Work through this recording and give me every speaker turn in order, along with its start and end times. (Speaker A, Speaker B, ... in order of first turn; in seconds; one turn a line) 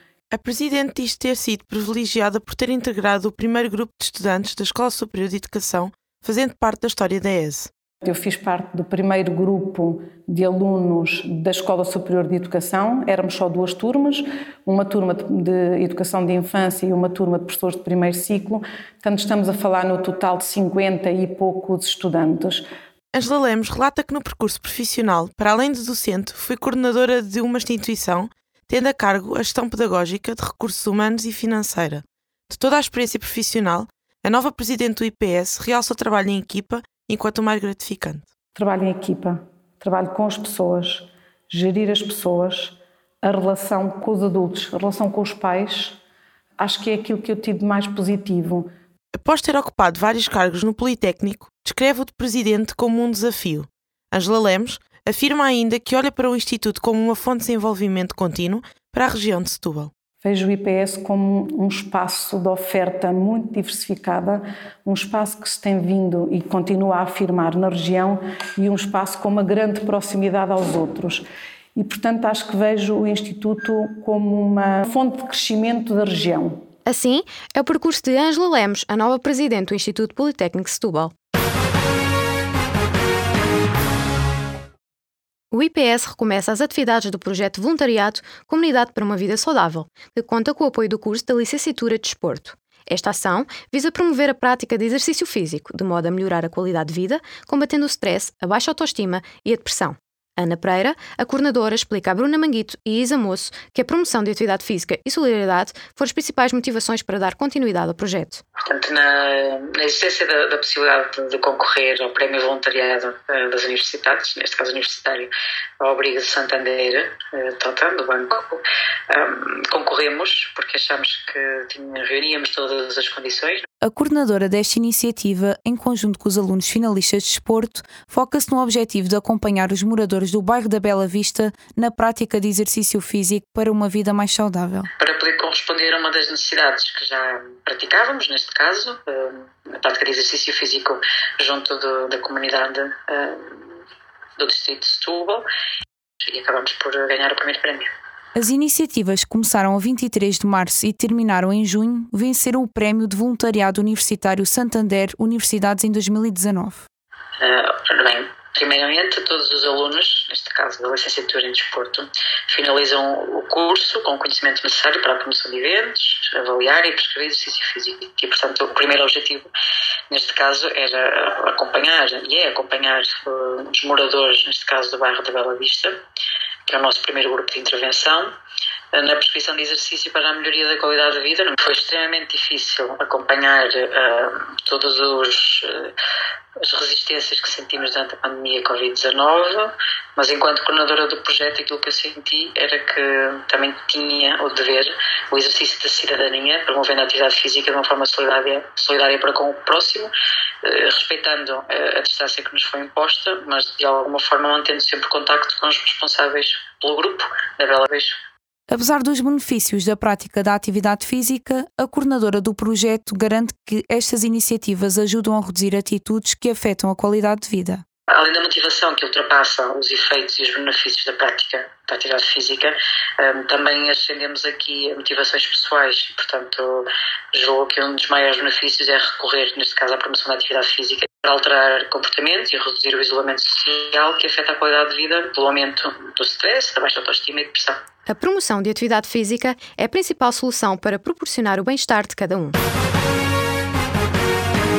Speaker A: 0.3-7.7
Speaker B: 8.0-22.6
Speaker A: 23.1-38.3
Speaker B: 38.5-46.0
Speaker B: 46.6-48.7
Speaker A: 49.2-59.9
Speaker B: 60.2-71.2
Speaker B: 71.8-76.6
Speaker C: 76.9-81.1
Speaker C: 85.5-108.4
Speaker D: 108.7-123.6
Speaker E: 123.8-134.9
Speaker D: 135.0-143.5
Speaker D: 144.4-145.4
Speaker D: 146.2-147.9
Speaker E: 148.4-156.9
Speaker D: 157.4-169.5
Speaker D: 170.1-176.0
Speaker D: 176.7-178.4
Speaker D: 178.9-185.9
Speaker D: 186.6-200.1
Speaker D: 200.7-208.2
Speaker E: 208.7-217.8
Speaker D: 218.1-237.8
Speaker C: 238.1-242.6